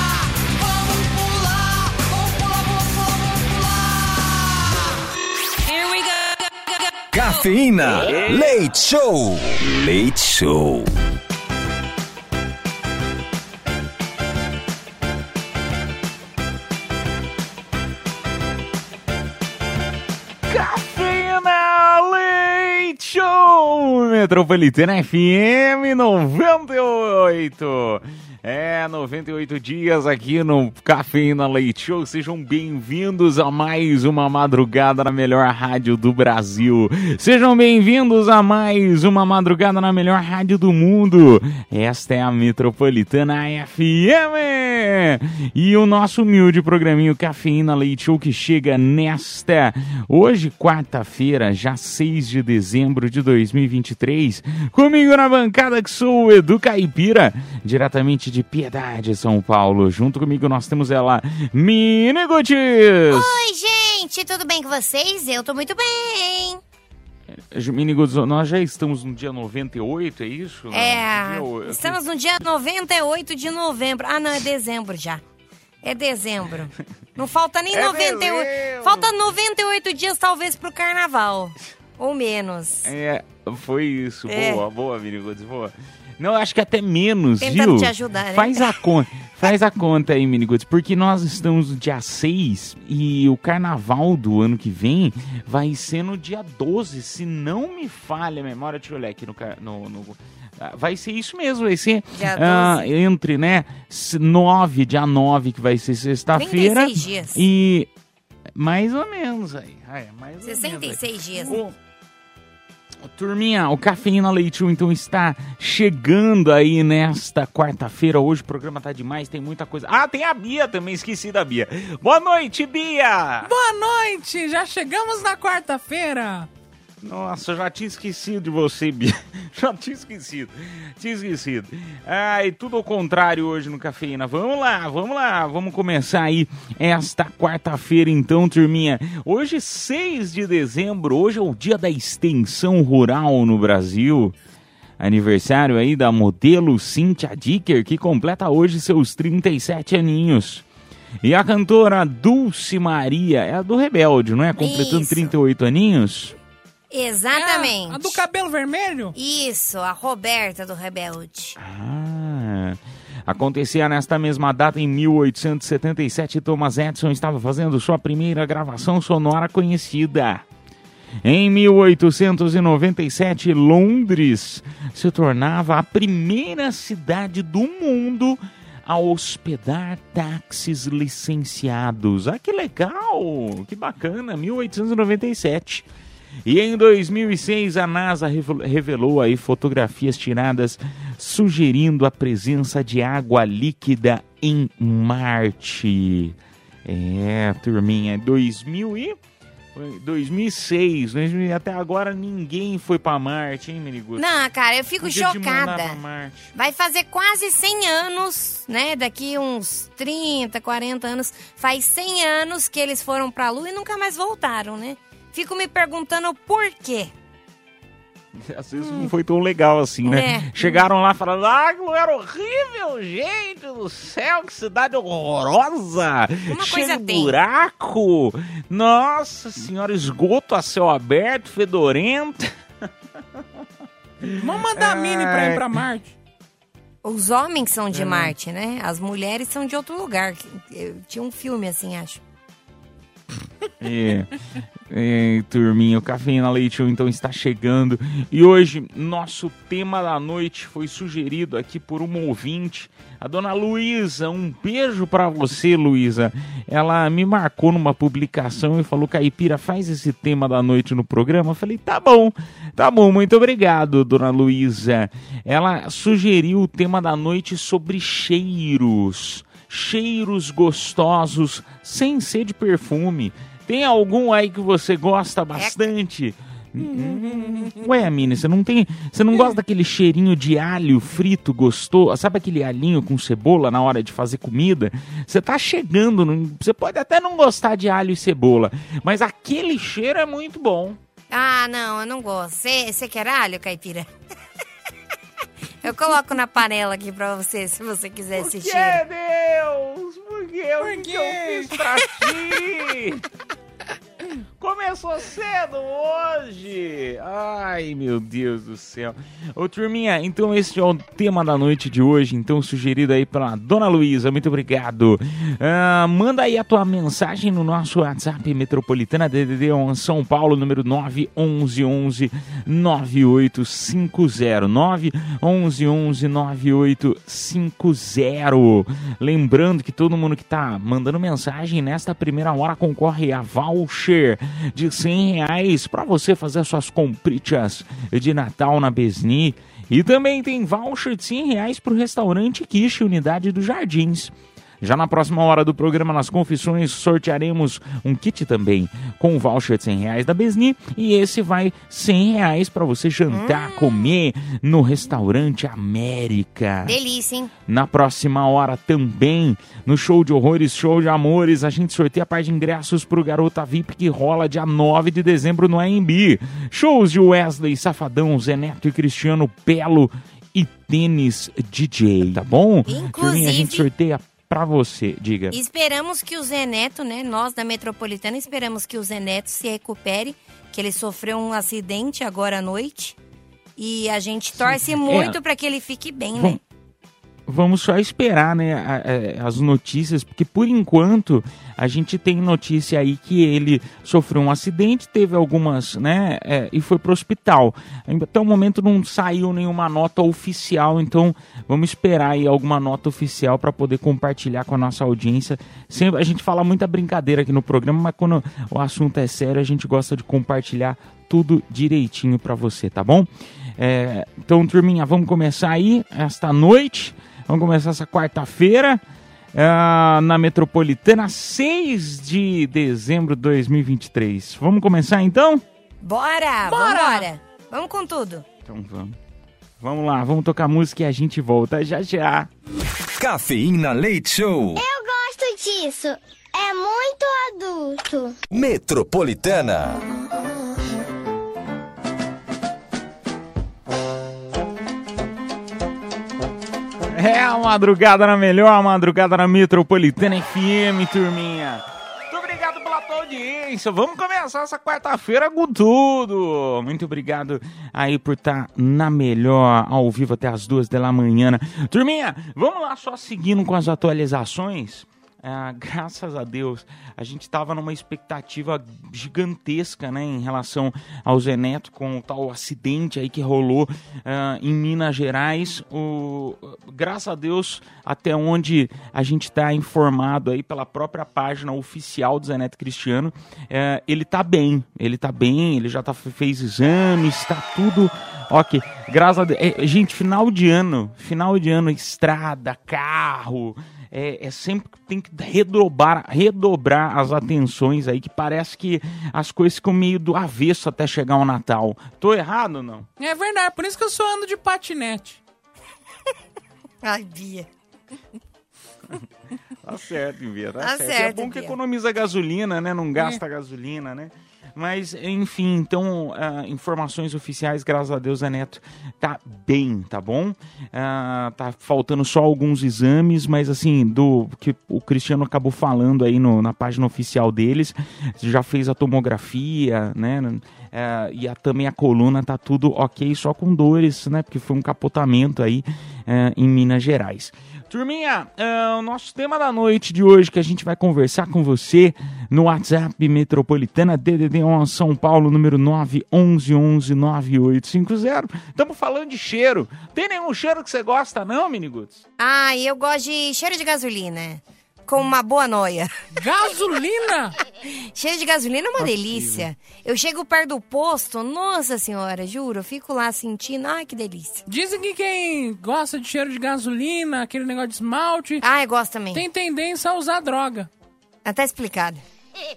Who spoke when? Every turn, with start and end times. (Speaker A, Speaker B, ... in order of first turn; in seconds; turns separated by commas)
Speaker A: 7.1-10.9, Speaker B: 20.5-63.3, Speaker C: 63.1-66.6, Speaker B: 67.3-72.0, Speaker C: 70.7-75.2, Speaker C: 75.8-82.9, Speaker B: 77.7-79.1, Speaker B: 82.8-107.9, Speaker C: 84.3-84.6, Speaker C: 87.4-88.7, Speaker C: 102.1-102.9, Speaker C: 106.3-107.4, Speaker B: 108.5-111.7, Speaker C: 110.4-111.6, Speaker B: 113.0-123.5, Speaker D: 123.4-126.5, Speaker B: 127.0-144.3, Speaker B: 145.0-150.6, Speaker B: 151.2-156.3, Speaker C: 154.6-155.3, Speaker C: 156.9-158.2, Speaker D: 157.3-159.1, Speaker C: 159.1-161.6, Speaker B: 161.6-170.4, Speaker B: 171.2-185.8, Speaker B: 186.4-199.2, Speaker B: 199.7-204.2, Speaker C: 204.2-206.0, Speaker B: 205.0-206.5, Speaker C: 206.5-217.1, Speaker B: 218.3-232.5, Speaker C: 220.1-220.8, Speaker C: 226.5-227.3, Speaker B: 233.4-233.6, Speaker B: 234.2-235.7, Speaker D: 234.4-236.2, Speaker C: 237.0-242.2, Speaker B: 237.9-238.3, Speaker B: 243.8-244.3, Speaker B: 244.9-291.0, Speaker D: 277.0-277.7, Speaker C: 291.3-294.1, Speaker C: 295.8-299.0, Speaker B: 298.3-303.2, Speaker D: 300.8-301.8, Speaker B: 304.6-356.9, Speaker C: 353.3-354.1, Speaker C: 356.9-357.5, Speaker B: 357.7-375.6, Speaker C: 372.9-373.9, Speaker C: 375.5-383.1, Speaker C: 383.8-386.6, Speaker B: 384.6-385.4, Speaker B: 387.5-419.0, Speaker B: 419.5-425.6, Speaker C: 426.0-428.4, Speaker D: 426.7-427.3, Speaker B: 428.6-429.1, Speaker B: 429.8-432.5, Speaker A: 433.2-434.8, Speaker E: 434.7-438.3, Speaker A: 438.5-440.0, Speaker B: 447.1-503.1, Speaker D: 503.2-505.4, Speaker C: 507.0-507.7, Speaker B: 509.8-552.2, Speaker C: 510.8-511.8, Speaker C: 552.4-556.1, Speaker D: 556.3-557.5, Speaker C: 557.9-564.6, Speaker B: 559.0-559.6, Speaker D: 564.7-568.6, Speaker C: 568.6-569.4, Speaker D: 569.3-570.9, Speaker C: 571.4-572.2